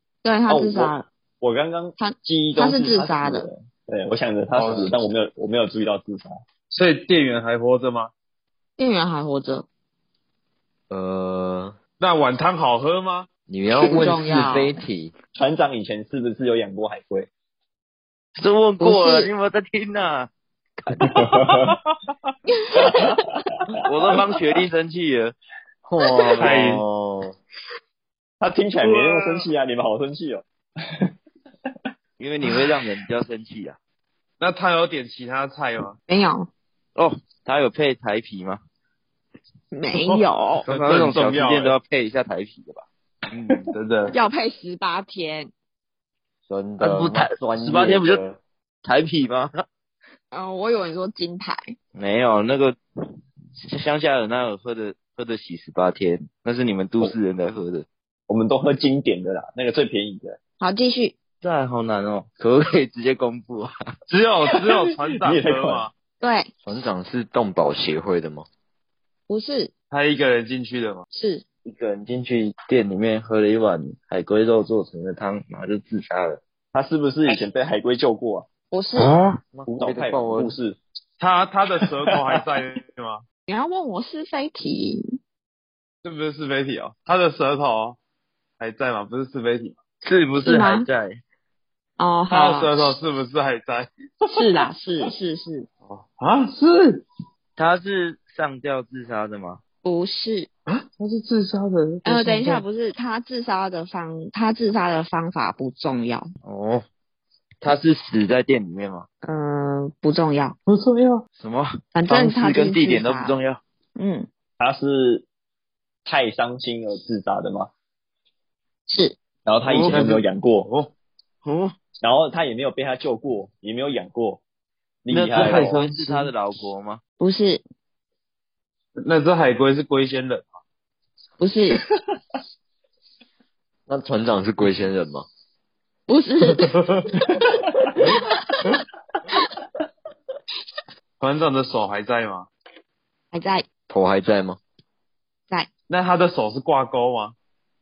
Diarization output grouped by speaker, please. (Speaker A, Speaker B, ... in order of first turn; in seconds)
Speaker A: 0.2-1.1, 2.0-3.5, 8.8-9.7, 13.8-14.8, 18.8-19.3, 22.5-23.1, 36.1-36.5, 39.7-40.7, 44.1-45.5, 50.3-51.8, 60.6-61.1, 66.2-66.5, 69.3-69.7, 71.1-71.4, 78.7-79.1, 83.5-85.0, 90.4-90.9, 92.0-92.9, 94.3-95.7, 99.8-100.5, 102.0-106.3, 109.2-110.6, 111.9-113.4, 114.0-114.3, 118.9-119.2, 127.2-127.6, 131.4-131.8, 136.1-136.7, 138.0-138.8, 143.3-143.7
Speaker B: 0.5-6.4, 15.3-17.3, 21.0-21.8, 22.8-24.3, 28.4-31.1, 58.3-60.4, 65.2-65.9, 76.7-78.5, 79.7-80.8, 82.1-82.4, 114.6-115.3, 116.1-117.7, 119.5-120.7, 122.0-124.4, 125.0-125.7
Speaker C: 4.5-4.9, 6.7-8.1, 12.0-13.3, 21.7-22.3, 26.4-26.8, 28.8-29.5, 34.4-36.0, 40.0-41.8, 43.3-44.1, 64.1-65.9, 69.9-71.0, 81.2-83.2, 86.0-88.0, 88.6-89.8, 92.3-94.4, 95.9-97.0, 100.7-102.6, 110.7-111.2, 119.6-120.9, 125.4-126.3, 129.0-130.6, 136.6-137.1, 141.2-142.5, 145.9-147.3
Speaker D: 10.9-11.8, 13.5-15.1, 25.8-27.4, 46.5-48.4, 66.6-68.5, 79.5-80.5, 133.9-135.3, 143.9-144.6
Speaker E: 18.4-21.5, 23.8-25.4, 32.2-33.8, 37.0-38.6, 40.6-43.5, 46.8-48.2, 48.8-49.6, 51.9-52.8, 53.6-57.9, 61.4-63.7, 71.6-76.4, 79.0-79.4, 90.0-91.2, 97.6-99.6, 106.4-106.8, 107.6-109.1, 111.4-113.6, 121.4-121.7, 125.1-127.0